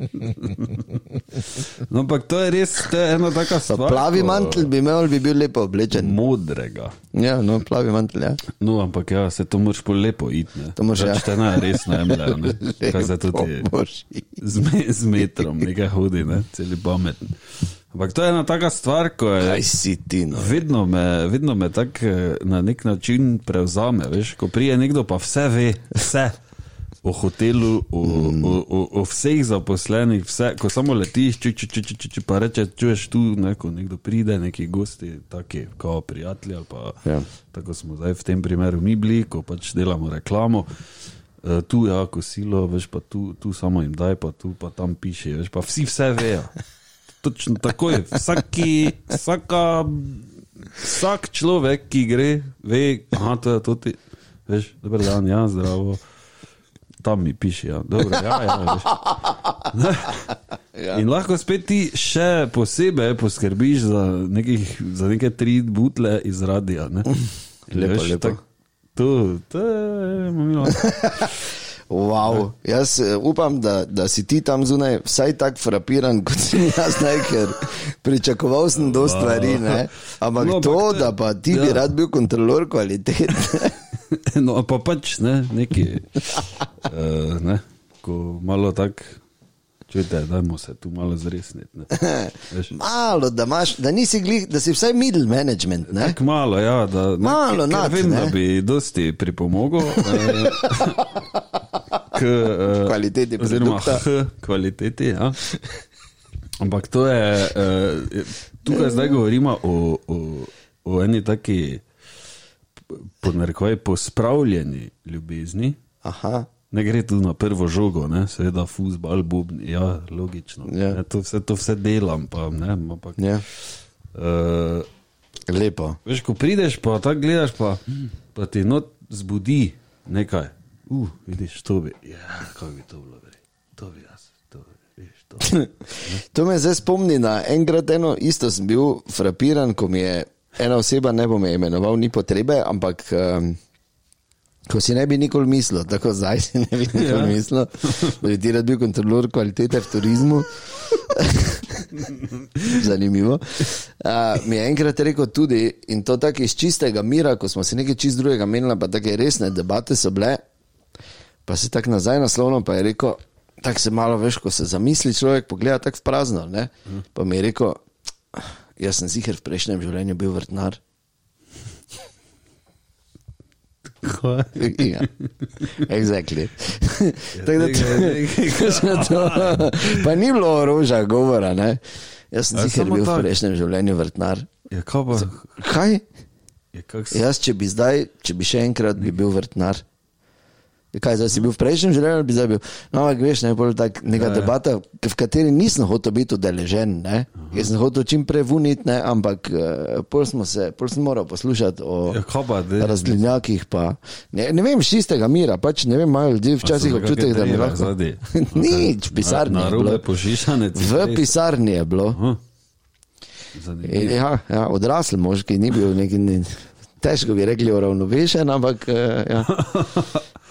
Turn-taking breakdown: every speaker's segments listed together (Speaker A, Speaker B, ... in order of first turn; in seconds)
Speaker A: 0.1-4.7, 5.9-6.9, 8.5-13.7, 14.4-17.4, 17.9-19.6, 20.3-26.3, 27.0-40.7, 41.4-46.5, 47.2-56.0, 57.0-60.4, 60.9-67.1, 67.7-68.4, 68.9-71.3, 78.8-81.8, 84.1-89.2, 89.9-92.7, 95.9-101.1, 102.0-105.4, 106.6-111.8, 112.9-115.8, 116.7-124.9, 126.0-136.2, 146.9-147.4, 152.1-152.8, 174.0-175.7, 177.3-180.1, 182.5-183.3, 184.7-185.5, 186.7-187.2, 194.2-194.5, 197.4-197.7, 202.1-203.2, 206.6-211.3, 212.1-212.4, 213.5-214.2, 219.5-220.2
Speaker B: 3.6-6.2, 7.1-8.4, 10.8-14.4, 19.4-20.6, 28.0-28.6, 60.8-61.0, 67.7-68.4, 70.8-71.3, 71.9-83.8, 91.9-96.2, 97.2-98.3, 100.0-100.9, 102.8-104.0, 116.0-116.5, 120.7-121.0, 123.2-123.4, 125.5-126.0, 135.4-143.6, 144.7-151.9, 152.7-160.4, 161.4-167.8, 168.3-170.8, 174.6-175.1, 175.7-181.8, 182.3-184.5, 185.1-186.0, 187.1-189.8, 190.9-202.2, 202.8-210.1, 210.7-212.2, 213.8-219.5